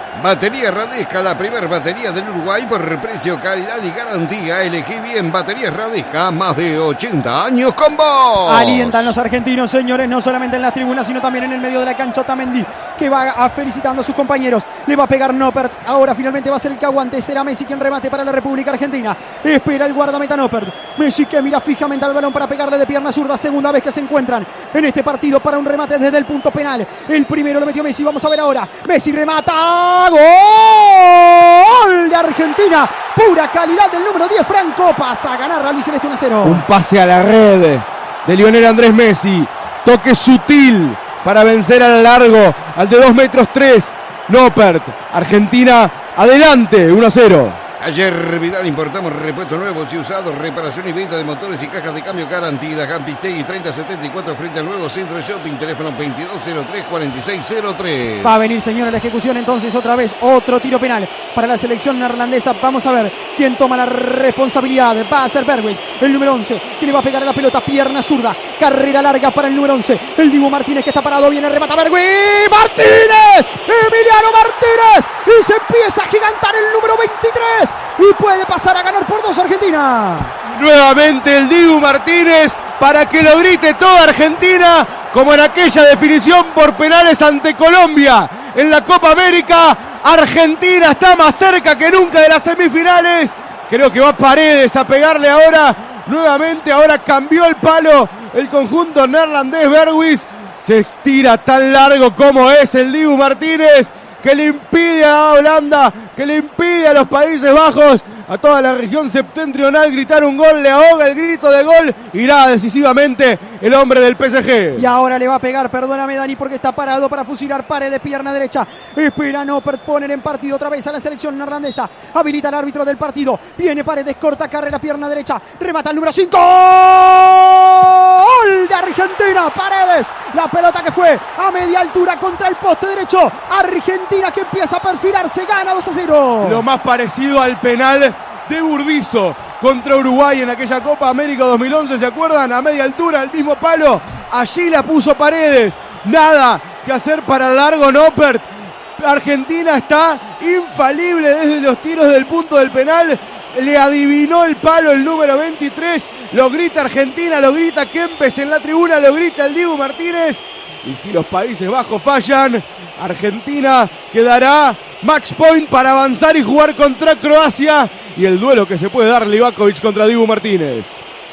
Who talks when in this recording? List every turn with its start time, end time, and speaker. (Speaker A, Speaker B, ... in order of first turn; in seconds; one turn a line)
Speaker A: 0.1-9.1
Speaker B: 8.4-36.6
Speaker C: 36.4-47.6
Speaker A: 47.8-58.5
Speaker B: 58.2-80.3
Speaker C: 80.4-114.8
Speaker B: 114.8-136.6
Speaker C: 136.4-148.4
Speaker C: 149.0-171.0